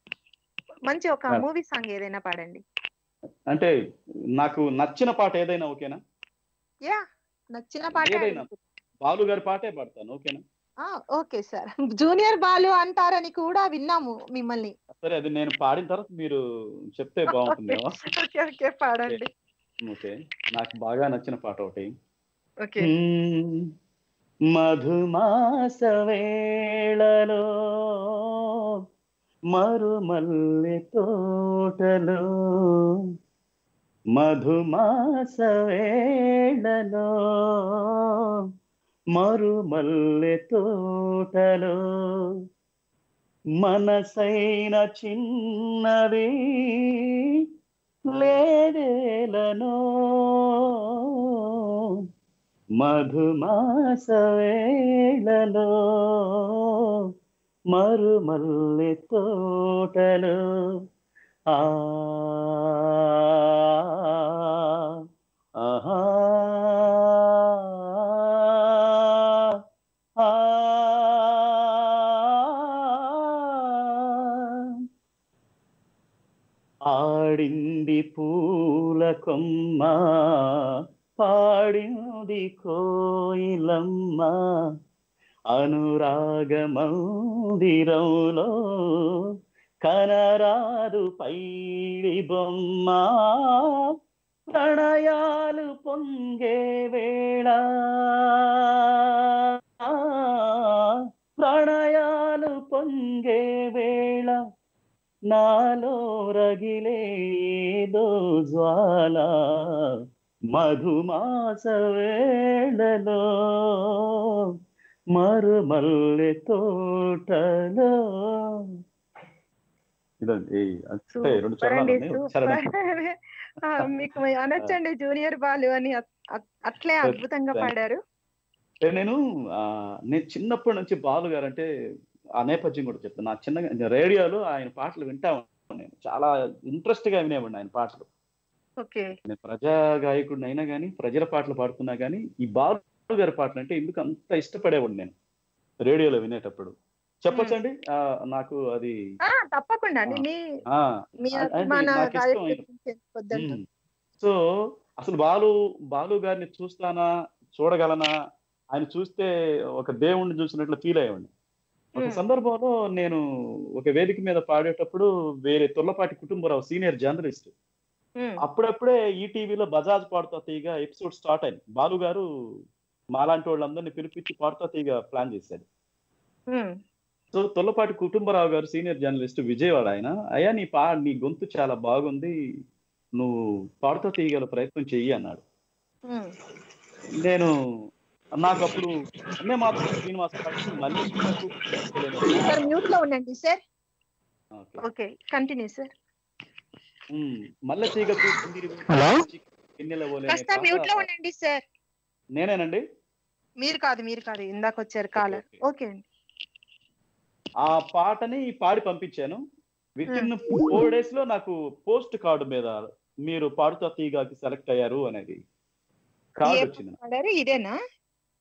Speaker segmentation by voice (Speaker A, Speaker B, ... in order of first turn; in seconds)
Speaker A: 0.9-2.6, 7.5-8.6, 11.2-14.7, 17.3-19.3, 121.2-123.1, 123.6-128.0, 138.8-139.1, 149.3-150.4, 151.3-153.6, 162.0-162.2, 192.4-193.6, 194.9-195.9, 200.3-201.6, 203.6-206.0, 216.4-217.7
Speaker B: 4.4-6.0, 8.0-8.5, 9.0-10.4, 15.0-16.4, 16.9-17.9, 19.8-21.9, 22.8-23.6, 24.5-26.3, 26.9-27.4, 29.5-31.1, 31.6-32.2, 34.2-36.0, 36.5-37.1, 39.2-40.6, 41.2-41.8, 43.6-45.3, 45.8-46.3, 48.1-50.4, 52.8-54.6, 55.2-55.7, 57.7-60.4, 61.5-62.8, 65.6-67.5, 68.5-69.1, 70.2-72.4, 73.0-74.3, 76.9-80.0, 81.2-84.4, 85.5-87.0, 87.6-88.5, 89.9-91.4, 92.1-93.6, 94.5-98.4, 99.4-100.2, 101.4-104.4, 105.3-107.0, 107.9-109.3, 110.5-112.2, 112.7-113.2, 115.2-118.4, 120.2-122.6, 127.0-127.7, 128.8-131.7, 132.4-138.1, 139.3-145.1, 145.8-149.0, 150.1-152.6, 153.3-153.7, 155.0-158.1, 158.7-161.3, 162.0-163.2, 163.8-167.5, 168.4-172.2, 173.2-175.7, 177.3-182.3, 183.2-185.4, 187.2-187.5, 188.4-192.7, 194.6-194.8, 197.1-201.1, 202.4-202.8, 205.2-205.6, 207.7-209.4, 210.0-215.4, 216.4-217.0